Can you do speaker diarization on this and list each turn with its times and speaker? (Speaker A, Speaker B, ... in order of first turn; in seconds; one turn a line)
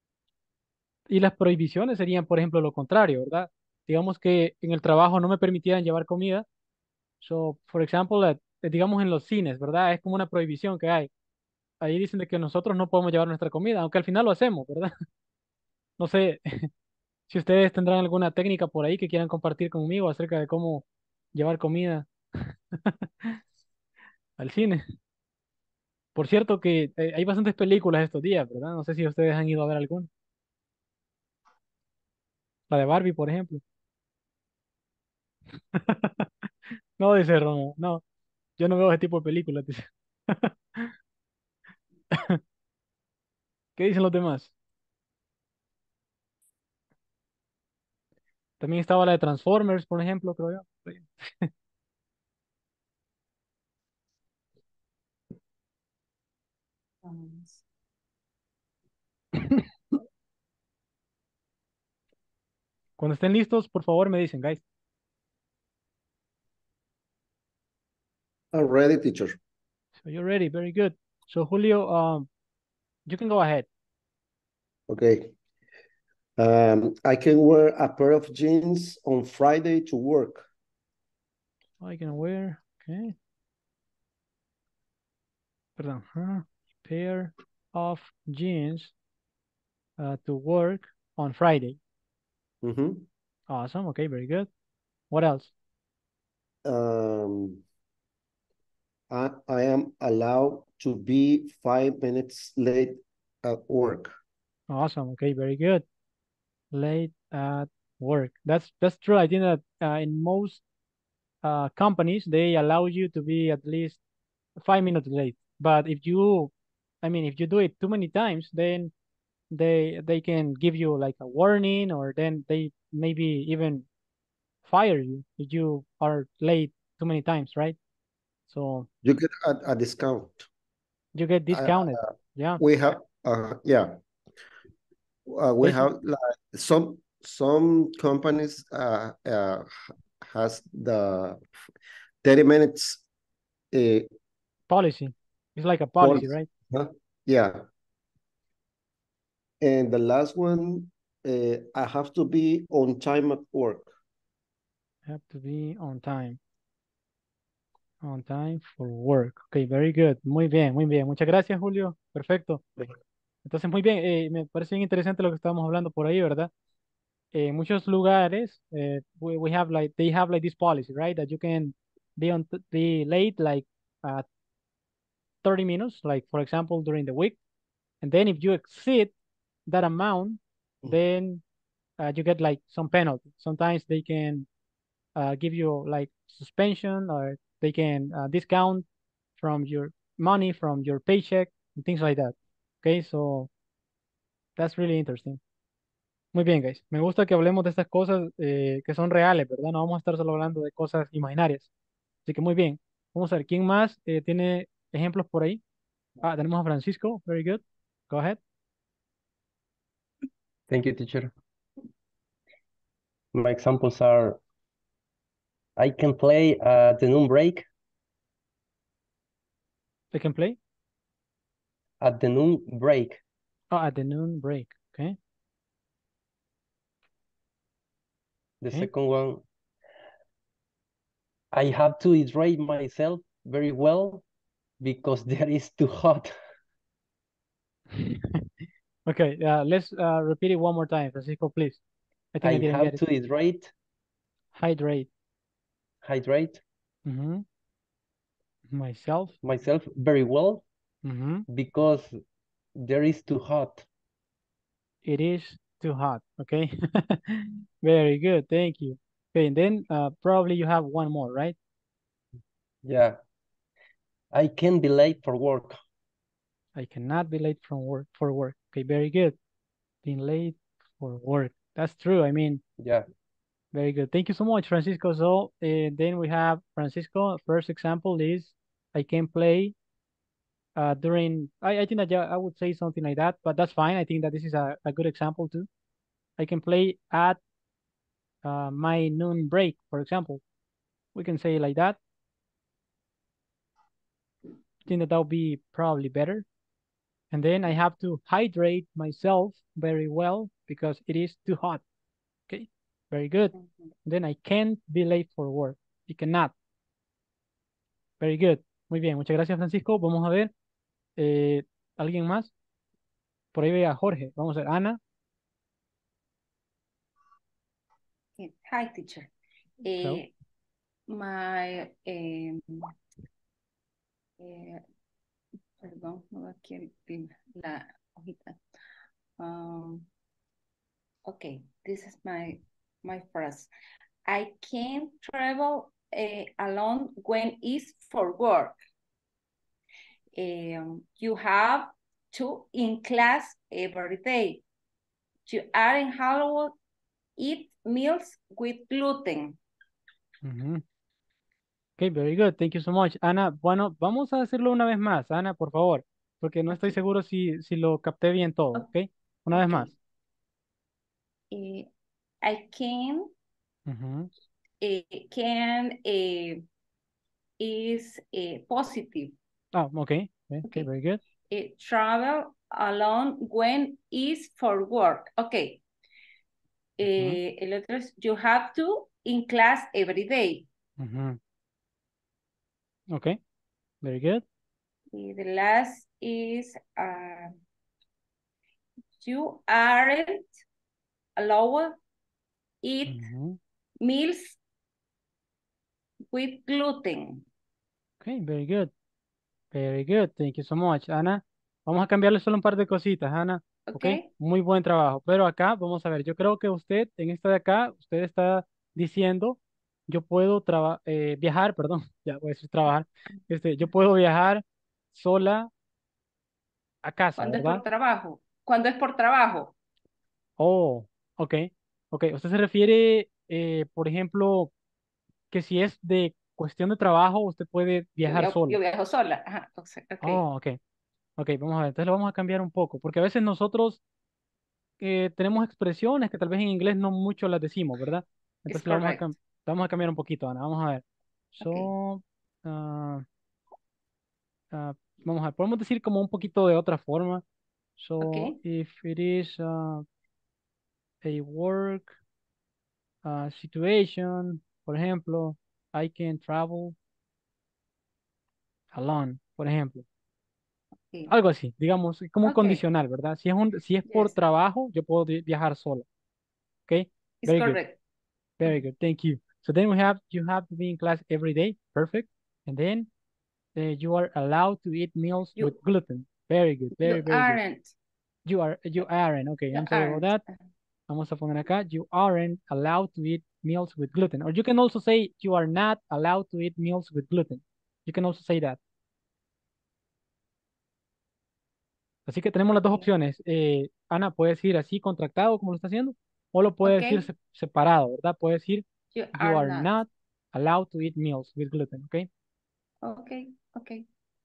Speaker A: 1.1-6.5
Speaker A: 7.2-11.1
Speaker A: 11.8-14.9
Speaker A: 16.0-16.7
Speaker A: 17.3-23.4
Speaker A: 24.4-24.8
Speaker A: 26.1-30.1
Speaker A: 32.7-33.6
Speaker A: 35.7-36.2
Speaker A: 37.0-38.0
Speaker A: 38.6-40.9
Speaker A: 42.1-42.4
Speaker A: 43.8-44.5
Speaker A: 48.6-51.5
Speaker B: 57.0-57.6
Speaker A: 63.0-64.6
Speaker C: 68.5-69.4
Speaker A: 70.0-72.3
Speaker A: 73.1-73.7
Speaker C: 74.9-75.3
Speaker C: 76.4-80.5
Speaker A: 81.8-83.1
Speaker A: 85.8-88.9
Speaker A: 90.0-91.8
Speaker C: 92.6-93.0
Speaker A: 93.5-94.5
Speaker A: 95.1-95.5
Speaker C: 96.6-97.6
Speaker C: 99.1-104.2
Speaker A: 104.7-105.8
Speaker A: 106.7-110.6
Speaker A: 111.4-114.0
Speaker A: 114.6-116.5
Speaker A: 117.0-118.9
Speaker A: 119.5-123.8
Speaker A: 124.6-127.8
Speaker A: 128.5-128.9
Speaker C: 129.0-130.5
Speaker A: 131.1-132.6
Speaker C: 131.5-134.0
Speaker C: 135.3-141.4
Speaker A: 135.6-135.9
Speaker C: 142.2-143.0
Speaker C: 143.7-144.1
Speaker A: 144.7-146.5
Speaker C: 146.0-147.7
Speaker C: 149.6-153.9
Speaker A: 155.1-156.4
Speaker A: 158.0-162.6
Speaker A: 163.4-166.5
Speaker A: 167.3-174.2
Speaker A: 175.4-177.4
Speaker A: 178.0-179.1
Speaker A: 179.7-181.4
Speaker A: 182.0-184.5
Speaker A: 185.2-188.8
Speaker A: 189.4-193.5
Speaker A: 194.6-195.4
Speaker A: 196.3-201.7
Speaker A: 202.2-205.6
Speaker A: 206.2-208.4
Speaker D: 210.7-211.3
Speaker D: 213.3-214.4
Speaker D: 215.8-217.7
Speaker A: 220.1-220.6
Speaker D: 222.0-223.2
Speaker A: 223.7-225.2
Speaker D: 228.6-229.4
Speaker D: 231.5-234.2
Speaker D: 234.8-236.4
Speaker A: 237.9-238.4
Speaker A: 239.1-241.8
Speaker A: 242.3-243.0
Speaker D: 242.4-243.7
Speaker A: 244.5-245.1
Speaker D: 246.0-246.6
Speaker A: 247.1-247.4
Speaker A: 248.7-249.3
Speaker D: 249.4-250.6
Speaker A: 251.0-251.4
Speaker D: 251.5-252.2
Speaker D: 252.8-253.8
Speaker A: 255.0-261.5
Speaker D: 262.8-263.2
Speaker D: 264.3-265.8
Speaker A: 266.8-269.4
Speaker A: 270.0-272.6
Speaker D: 272.8-273.1
Speaker A: 273.7-279.7
Speaker A: 280.8-285.7
Speaker A: 286.4-287.4
Speaker A: 288.4-290.4
Speaker A: 291.1-292.0
Speaker A: 294.9-296.4
Speaker A: 297.3-301.8
Speaker A: 302.5-303.5
Speaker A: 304.1-306.5
Speaker A: 308.2-310.5
Speaker A: 311.2-312.5
Speaker A: 313.5-315.0
Speaker B: 318.4-319.3
Speaker B: 319.8-320.3
Speaker B: 321.1-322.9
Speaker B: 324.4-324.8
Speaker B: 325.8-328.6
Speaker B: 329.4-330.1
Speaker B: 331.2-333.7
Speaker B: 334.3-338.8
Speaker B: 340.3-344.6
Speaker B: 345.4-346.8
Speaker B: 347.4-349.6
Speaker A: 350.4-350.8
Speaker A: 352.0-359.9
Speaker B: 356.7-357.0
Speaker B: 359.5-359.9
Speaker B: 361.5-361.9
Speaker B: 362.4-363.3
Speaker A: 363.9-364.3
Speaker B: 364.8-366.6
Speaker B: 367.6-369.4
Speaker A: 369.7-371.2
Speaker B: 371.5-375.8
Speaker B: 377.0-380.7
Speaker A: 377.1-377.4
Speaker A: 381.0-381.4
Speaker A: 383.1-383.4
Speaker A: 384.0-384.4
Speaker B: 385.1-387.6
Speaker B: 389.2-390.6
Speaker B: 391.4-392.0
Speaker B: 392.8-393.3
Speaker A: 393.1-393.6
Speaker B: 394.0-394.6
Speaker B: 396.3-397.4
Speaker A: 398.2-398.9
Speaker A: 399.7-415.7
Speaker B: 403.9-404.3
Speaker A: 417.0-417.8
Speaker B: 417.4-419.7
Speaker A: 420.6-424.7
Speaker A: 425.5-428.8
Speaker B: 428.2-430.4
Speaker A: 430.2-430.8
Speaker A: 431.4-434.0
Speaker A: 435.0-441.0
Speaker B: 438.7-439.3
Speaker A: 441.5-443.2
Speaker B: 441.6-441.9
Speaker A: 444.7-447.4
Speaker A: 448.0-450.0
Speaker B: 448.2-448.6
Speaker A: 451.2-452.1
Speaker A: 453.2-456.9
Speaker A: 458.9-460.0
Speaker A: 461.3-466.0
Speaker B: 462.4-462.8
Speaker B: 464.1-464.4
Speaker A: 466.9-467.8
Speaker B: 467.4-468.0
Speaker A: 468.6-473.1
Speaker A: 473.8-477.6
Speaker B: 477.0-477.9
Speaker A: 478.4-480.4
Speaker B: 479.7-480.5
Speaker A: 481.1-488.8
Speaker A: 492.3-502.3
Speaker B: 492.7-493.1
Speaker B: 496.8-497.3
Speaker B: 499.1-500.0
Speaker B: 503.0-504.0